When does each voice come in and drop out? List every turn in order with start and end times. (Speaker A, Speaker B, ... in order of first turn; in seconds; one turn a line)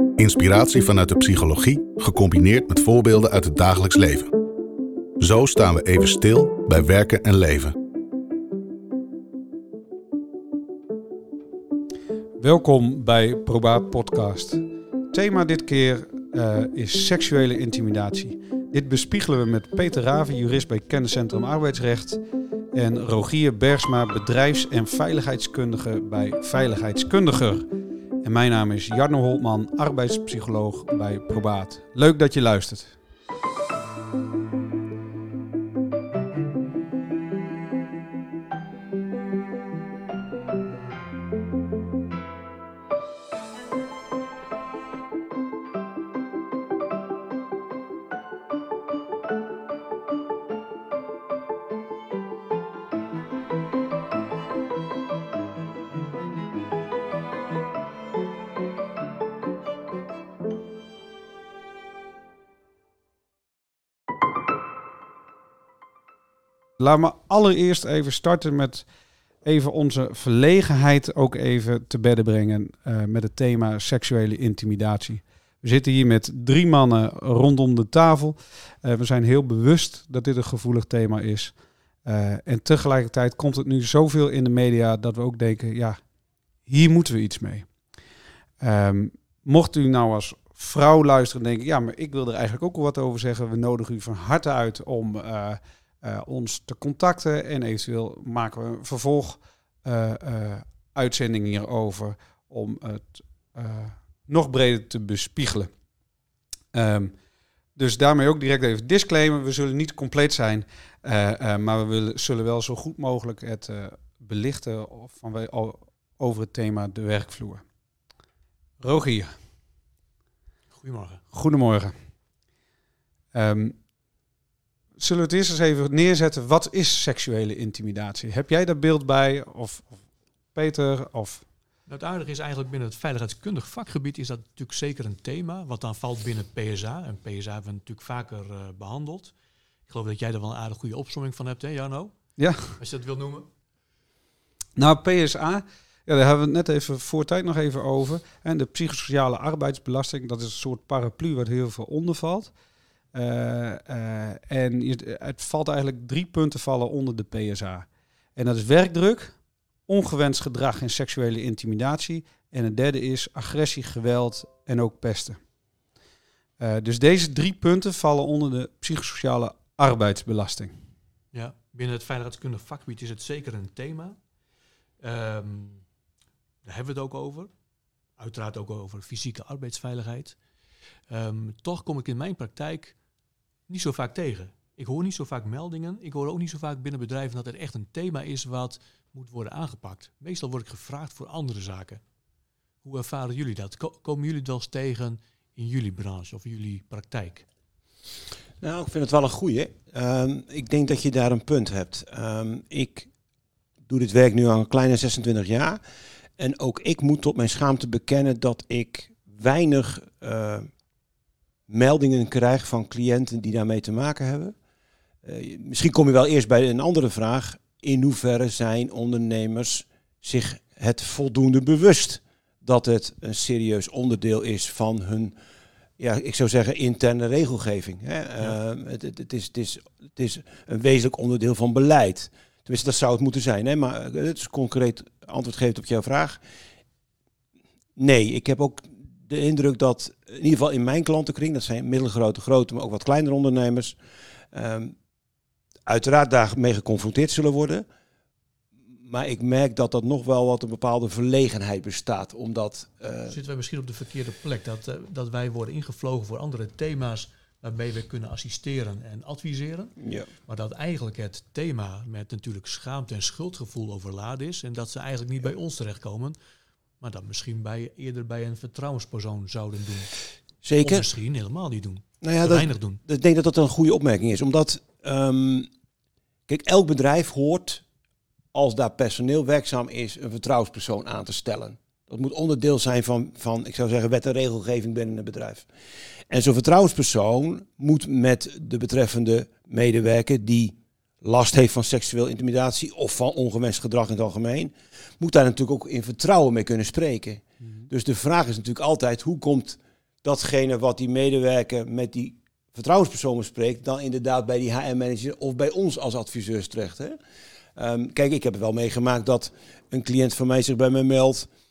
Speaker A: 0.2-4.3
Speaker A: 5.2-7.8
Speaker B: 12.4-22.2
Speaker B: 22.8-27.7
Speaker B: 28.2-33.0
Speaker B: 66.8-68.9
Speaker B: 69.4-81.5
Speaker B: 82.0-86.0
Speaker B: 86.7-87.7
Speaker B: 88.6-105.7
Speaker B: 106.7-107.1
Speaker B: 107.8-117.6
Speaker B: 118.8-119.3
Speaker C: 120.7-121.2
Speaker B: 121.3-121.9
Speaker B: 123.3-123.8
Speaker B: 125.0-129.9
Speaker B: 130.5-131.4
Speaker C: 131.9-139.3
Speaker C: 139.9-142.2
Speaker B: 142.4-142.8
Speaker C: 142.8-143.5
Speaker B: 144.8-152.5
Speaker B: 153.1-159.4
Speaker B: 159.9-165.4
Speaker B: 166.6-170.7
Speaker C: 171.3-174.2
Speaker C: 175.0-175.8
Speaker C: 176.7-177.5
Speaker C: 178.2-180.4
Speaker C: 181.1-182.9
Speaker C: 183.7-192.0
Speaker C: 192.8-197.4
Speaker D: 198.6-203.1
Speaker D: 203.9-205.8
Speaker D: 206.4-210.7
Speaker D: 211.7-214.6
Speaker D: 215.2-225.3
Speaker D: 226.0-236.4
Speaker D: 238.0-244.0
Speaker D: 244.5-244.9
Speaker D: 245.9-247.8
Speaker D: 249.1-253.4
Speaker C: 253.3-259.9
Speaker D: 260.0-260.3
Speaker C: 260.5-266.4
Speaker C: 267.0-270.1
Speaker D: 270.6-271.1
Speaker C: 270.8-273.0
Speaker D: 272.2-275.7
Speaker D: 276.5-277.8
Speaker D: 278.5-285.7
Speaker D: 286.3-307.2
Speaker D: 307.8-311.5